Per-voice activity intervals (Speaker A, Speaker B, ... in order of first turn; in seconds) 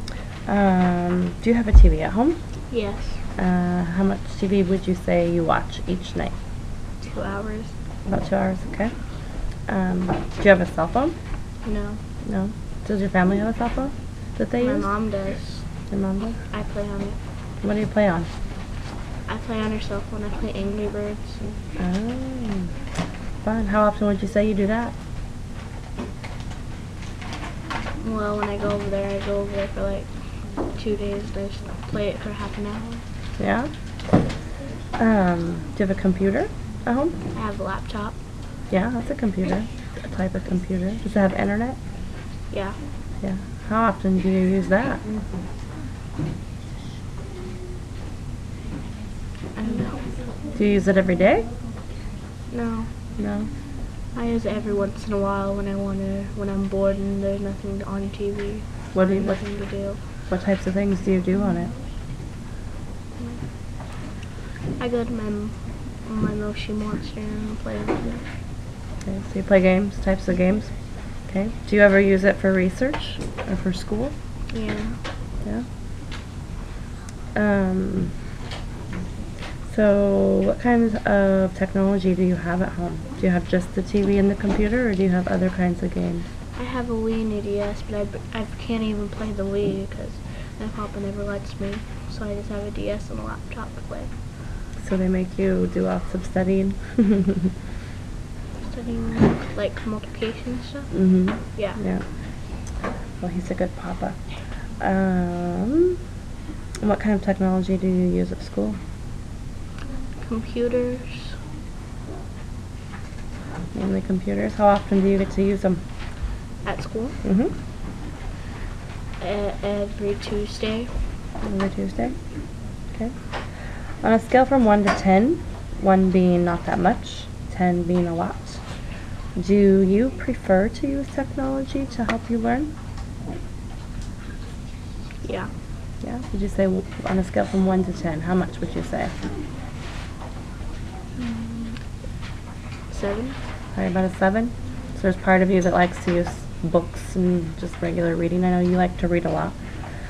Speaker A: 0.5-2.4, 3.4-6.3, 8.1-8.9, 9.7-11.2, 12.2-14.9, 15.9-16.4, 17.6-18.3, 21.8-22.7, 23.4-24.9, 33.4-33.7, 35.0-37.2, 38.7-41.8, 43.2-45.0, 50.5-51.5, 53.2-53.5, 58.9-59.4, 60.3-61.7, 69.0-70.7, 71.3-74.1, 77.3-78.2, 79.7-86.3, 94.8-97.5, 100.9-102.0, 103.2-104.2, 104.8-106.0, 106.8-108.8, 113.7-115.8, 117.2-117.5, 121.4-122.2, 124.0-128.6, 129.4-132.7, 136.0-139.2, 143.8-149.6
Speaker B: 2.7-3.2, 7.0-7.7, 11.6-12.0, 14.6-15.7, 16.4-17.2, 19.3-21.4, 28.0-30.1, 30.8-33.0, 37.3-38.2, 42.5-42.8, 49.6-50.1, 52.5-52.9, 54.1-60.0, 63.2-63.4, 64.8-68.2, 74.5-75.0, 86.6-94.1, 98.6-100.9, 110.2-111.4, 116.6-117.2, 119.2-120.9, 135.2-135.5, 141.2-141.8, 142.9-143.4